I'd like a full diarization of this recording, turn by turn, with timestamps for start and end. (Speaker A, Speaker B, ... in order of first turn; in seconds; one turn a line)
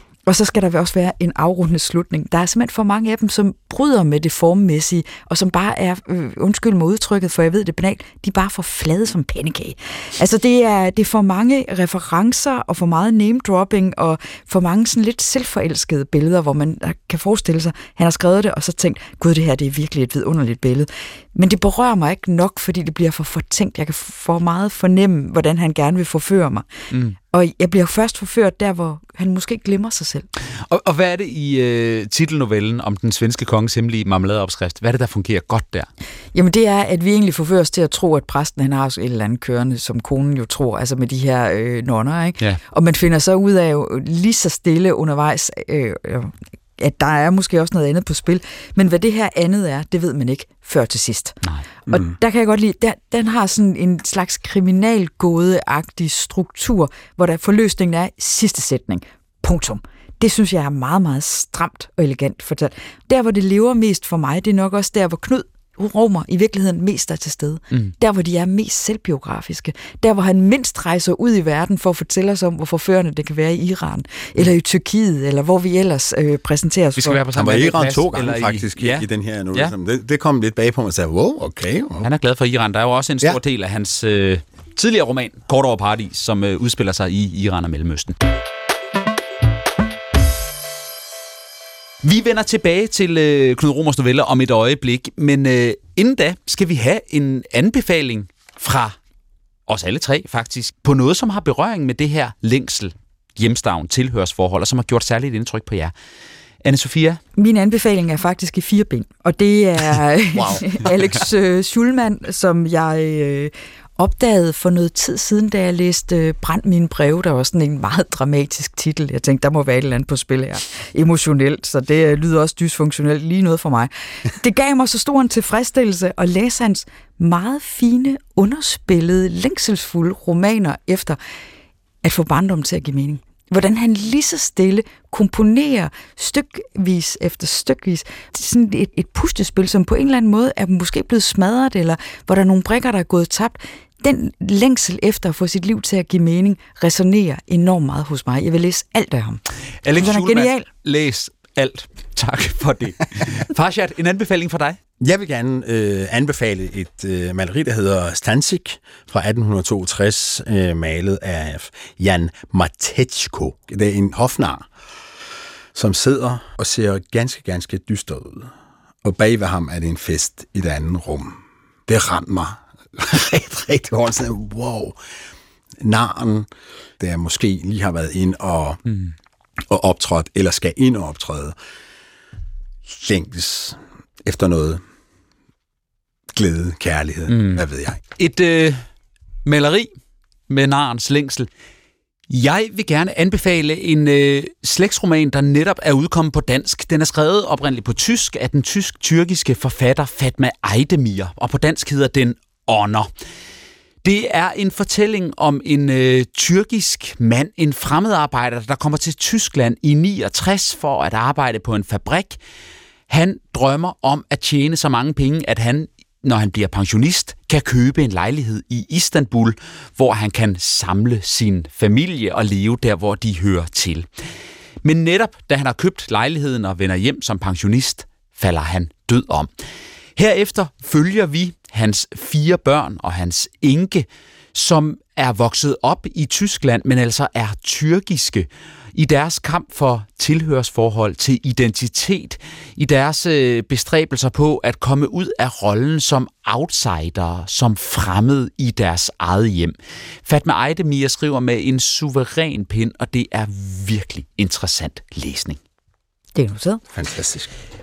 Speaker A: 0.2-26.7
Speaker A: 27.3-30.3
Speaker B: 30.7-35.9
Speaker A: 36.3-51.4
Speaker C: 51.9-52.1
Speaker A: 51.9-77.2
Speaker B: 77.0-79.7
Speaker C: 77.3-82.1
Speaker B: 82.0-88.2
Speaker B: 92.0-99.0
Speaker B: 99.7-105.9
Speaker B: 106.6-107.2
Speaker A: 107.3-131.2
Speaker C: 110.4-110.9
Speaker A: 132.0-149.4
Speaker B: 149.8-154.8
Speaker A: 149.9-150.7
Speaker C: 155.0-164.7
Speaker C: 165.7-168.5
Speaker C: 169.0-175.0
Speaker C: 175.8-176.5
Speaker C: 177.0-178.8
Speaker B: 178.9-179.1
Speaker C: 179.7-181.6
Speaker C: 182.8-184.8
Speaker C: 186.3-188.0
Speaker B: 187.3-187.6
Speaker B: 188.2-188.8
Speaker B: 189.4-189.9
Speaker B: 190.5-191.5
Speaker B: 192.3-203.1
Speaker B: 204.0-212.4
Speaker B: 213.1-224.1
Speaker B: 224.8-229.5
Speaker B: 230.2-249.7
Speaker B: 250.2-255.6
Speaker A: 256.3-256.8
Speaker C: 256.9-257.5